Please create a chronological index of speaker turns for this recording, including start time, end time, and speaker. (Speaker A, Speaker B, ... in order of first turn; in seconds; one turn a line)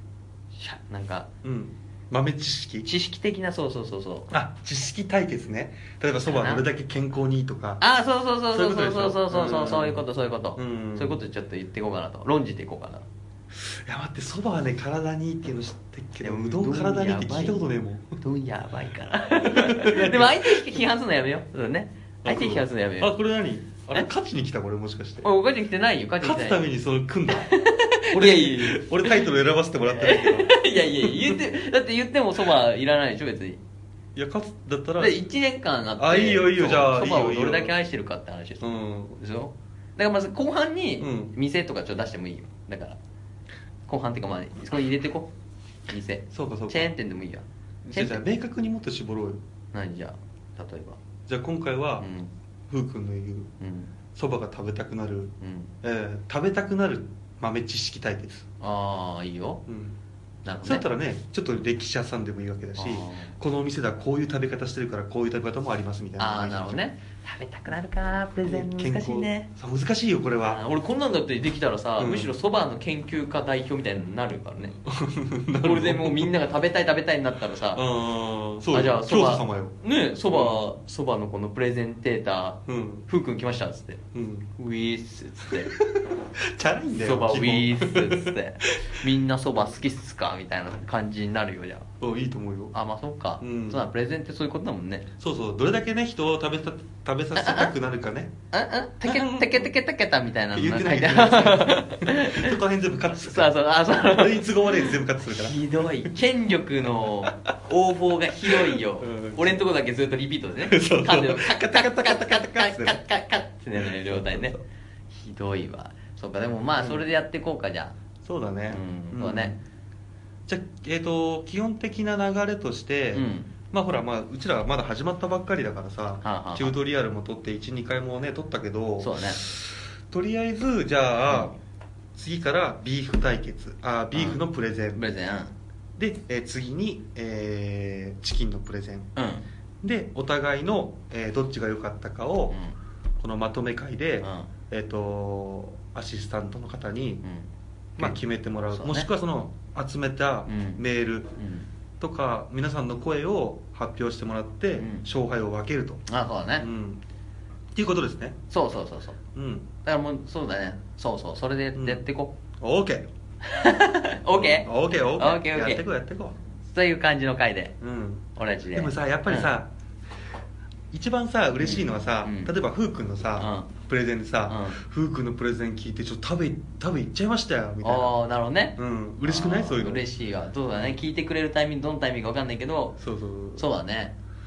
Speaker A: 0.5-1.3
Speaker B: 1.4-2.9
Speaker A: 2.8-4.3
Speaker B: 4.3-7.8
Speaker A: 6.2-6.6
Speaker A: 7.8-13.0
Speaker B: 8.5-10.0
Speaker B: 10.6-11.2
Speaker B: 13.5-18.2
Speaker A: 16.2-17.6
Speaker A: 18.2-23.1
Speaker B: 19.4-20.7
Speaker B: 22.2-25.3
Speaker A: 25.2-26.6
Speaker B: 26.2-27.5
Speaker A: 27.4-29.2
Speaker B: 28.1-31.4
Speaker A: 29.9-33.6
Speaker B: 34.1-35.2
Speaker A: 35.0-43.0
Speaker B: 36.0-37.7
Speaker B: 38.6-39.2
Speaker B: 41.0-41.3
Speaker A: 43.9-45.3
Speaker A: 45.9-48.2
Speaker B: 46.3-46.9
Speaker B: 47.9-49.4
Speaker A: 49.7-51.0
Speaker B: 51.3-52.1
Speaker A: 52.0-52.3
Speaker B: 52.7-53.5
Speaker A: 53.6-53.9
Speaker B: 54.1-58.5
Speaker A: 55.4-55.7
Speaker A: 58.6-59.6
Speaker B: 59.7-60.0
Speaker A: 60.4-60.8
Speaker B: 60.6-66.8
Speaker A: 62.8-63.3
Speaker A: 66.2-69.5
Speaker B: 68.4-70.6
Speaker A: 70.4-74.8
Speaker B: 72.0-72.3
Speaker B: 74.7-76.3
Speaker A: 75.6-77.8
Speaker B: 77.7-79.8
Speaker A: 78.7-84.0
Speaker B: 80.3-80.6
Speaker B: 82.7-83.0
Speaker B: 84.1-84.5
Speaker A: 84.6-85.7
Speaker B: 85.7-88.7
Speaker A: 87.0-91.9
Speaker B: 92.0-92.7
Speaker A: 92.7-95.1
Speaker B: 93.4-93.8
Speaker B: 95.2-98.3
Speaker A: 97.3-97.7
Speaker A: 98.5-102.5
Speaker B: 99.0-99.7
Speaker B: 100.5-106.1
Speaker A: 103.1-114.6
Speaker B: 108.4-109.6
Speaker B: 110.7-113.0
Speaker B: 113.8-114.6
Speaker A: 115.1-118.0
Speaker B: 116.8-117.1
Speaker B: 118.2-119.6
Speaker A: 118.7-119.6
Speaker B: 120.5-131.5
Speaker A: 123.1-123.5
Speaker A: 126.2-126.7
Speaker A: 129.0-129.4
Speaker A: 131.3-131.6
Speaker B: 132.1-135.0
Speaker A: 134.1-134.4
Speaker A: 134.9-135.5
Speaker B: 136.0-139.1
Speaker A: 139.2-139.4
Speaker B: 139.8-142.6
Speaker A: 142.5-142.8
Speaker B: 143.2-147.2
Speaker A: 144.2-144.5
Speaker A: 147.2-149.1
Speaker B: 148.0-151.3
Speaker A: 150.4-150.8
Speaker A: 151.3-151.7
Speaker B: 152.0-156.0
Speaker A: 154.8-155.1
Speaker A: 156.1-156.7
Speaker B: 156.6-157.0
Speaker B: 157.7-158.4
Speaker A: 158.5-159.2
Speaker B: 159.3-159.7
Speaker A: 159.8-162.3
Speaker B: 161.7-162.0
Speaker B: 162.6-163.1
Speaker A: 163.4-165.8
Speaker B: 164.3-166.3
Speaker A: 166.7-167.7
Speaker B: 167.8-169.7
Speaker A: 168.3-169.5
Speaker B: 170.9-178.1
Speaker A: 171.6-172.5
Speaker A: 173.4-173.7
Speaker A: 174.5-174.8
Speaker A: 177.8-183.0
Speaker B: 178.8-180.1
Speaker B: 183.0-183.7
Speaker A: 183.6-184.2